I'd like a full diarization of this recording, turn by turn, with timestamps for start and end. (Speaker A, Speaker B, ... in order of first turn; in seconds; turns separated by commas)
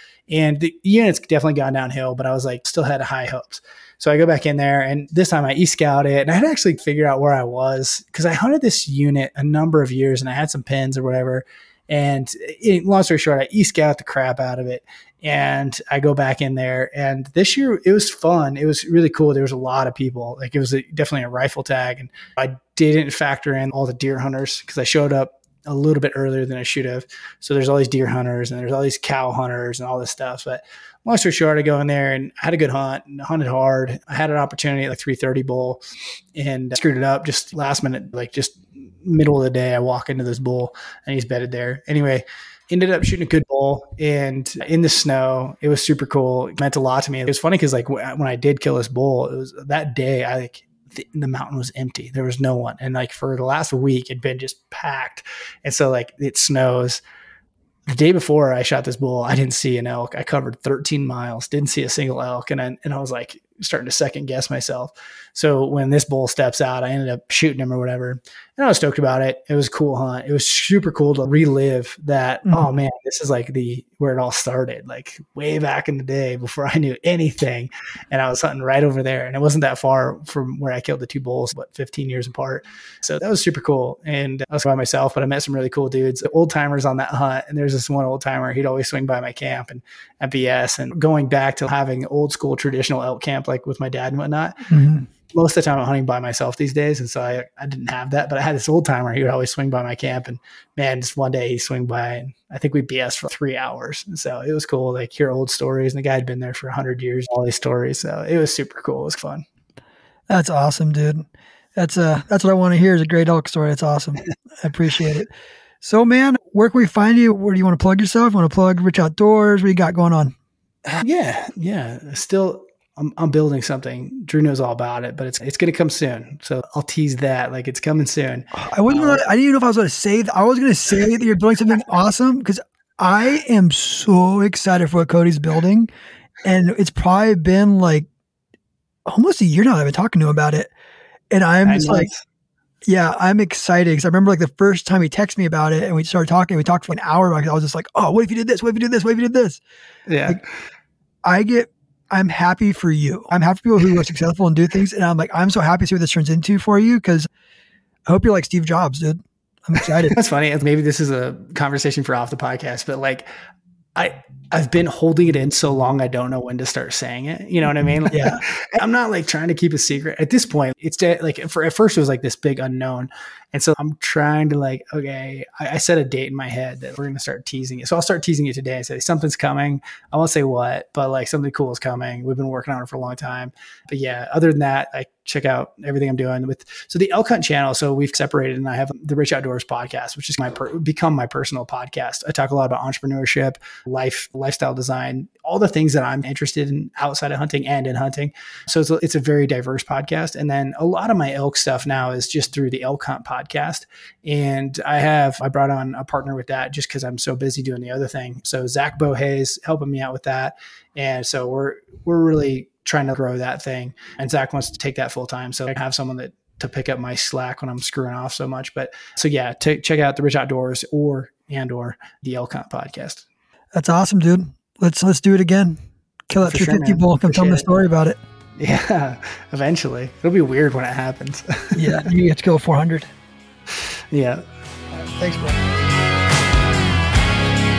Speaker A: 0.3-35.8, Speaker A: 36.4-57.0, Speaker A: 57.9-94.7, Speaker B: 94.7-95.1, Speaker A: 95.3-109.5, Speaker B: 110.3-120.3, Speaker A: 120.9-129.2, Speaker B: 128.5-135.9, Speaker B: 136.4-138.1, Speaker B: 139.1-140.7, Speaker B: 141.3-142.1, Speaker A: 141.7-142.2, Speaker B: 142.8-149.6, Speaker A: 150.1-150.4, Speaker B: 151.2-157.3, Speaker B: 158.1-160.2, Speaker A: 160.1-163.3, Speaker A: 164.0-223.3, Speaker B: 168.1-168.4, Speaker B: 223.7-225.8, Speaker B: 226.3-228.2, Speaker A: 226.4-227.7, Speaker A: 228.6-232.0, Speaker B: 231.7-233.1, Speaker A: 234.1-234.4, Speaker B: 234.9-235.7